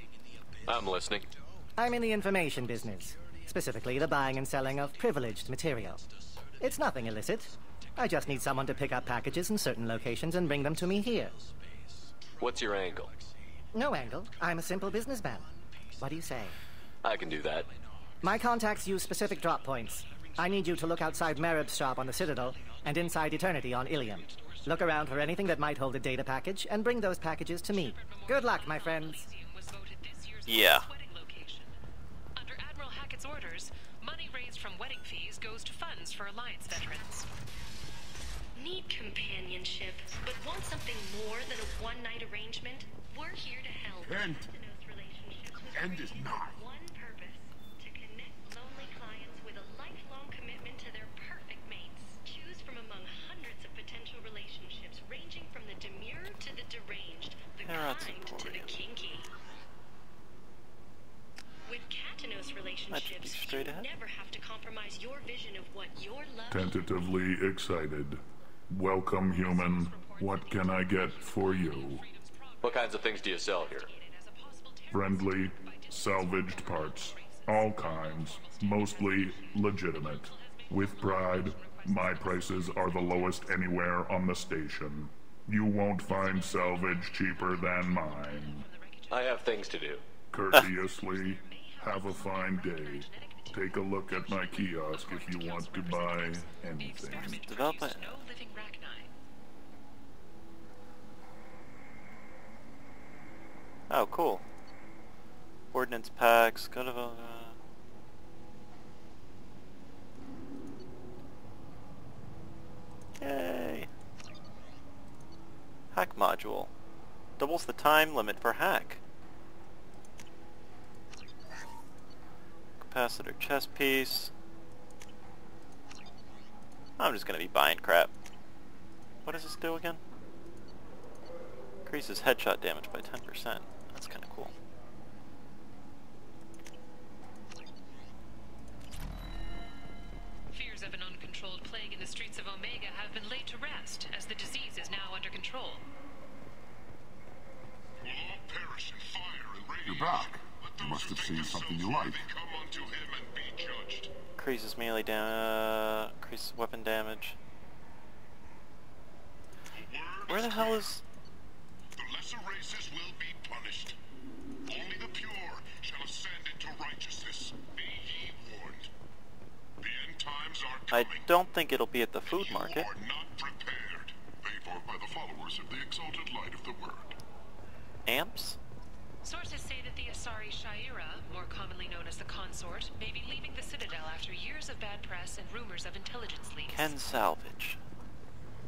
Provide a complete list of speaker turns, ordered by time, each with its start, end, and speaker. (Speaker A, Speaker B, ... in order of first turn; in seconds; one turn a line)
Speaker A: 0.7-1.2
Speaker B: 1.8-6.0
Speaker B: 6.6-11.3
Speaker A: 12.3-13.1
Speaker B: 13.7-15.4
Speaker B: 16.0-16.6
Speaker A: 17.0-17.7
Speaker B: 18.2-29.3
Speaker C: 27.7-31.7
Speaker D: 30.5-30.9
Speaker C: 32.4-37.3
Speaker E: 38.5-59.2
Speaker D: 57.6-58.8
Speaker E: 61.7-67.0
Speaker D: 62.9-63.9
Speaker F: 66.5-72.0
Speaker C: 69.3-83.7
Speaker A: 72.6-73.9
Speaker F: 74.9-88.7
Speaker C: 86.0-89.9
Speaker A: 89.1-90.0
Speaker F: 90.3-97.4
Speaker C: 90.5-99.1
Speaker D: 97.2-98.2
Speaker D: 103.9-104.4
Speaker D: 105.7-107.5
Speaker D: 113.2-113.9
Speaker D: 115.9-116.7
Speaker D: 117.4-119.0
Speaker D: 122.8-124.3
Speaker D: 127.0-128.1
Speaker D: 129.2-130.0
Speaker D: 131.8-134.5
Speaker C: 140.5-145.8
Speaker G: 148.0-154.1
Speaker F: 149.9-152.2
Speaker D: 154.3-157.4
Speaker G: 159.8-161.0
Speaker D: 160.3-161.0
Speaker G: 162.0-164.0
Speaker G: 164.7-168.9
Speaker G: 169.8-171.3
Speaker D: 170.9-172.9
Speaker G: 172.2-177.2
Speaker D: 178.1-178.6
Speaker C: 179.2-186.9
Speaker D: 186.7-187.8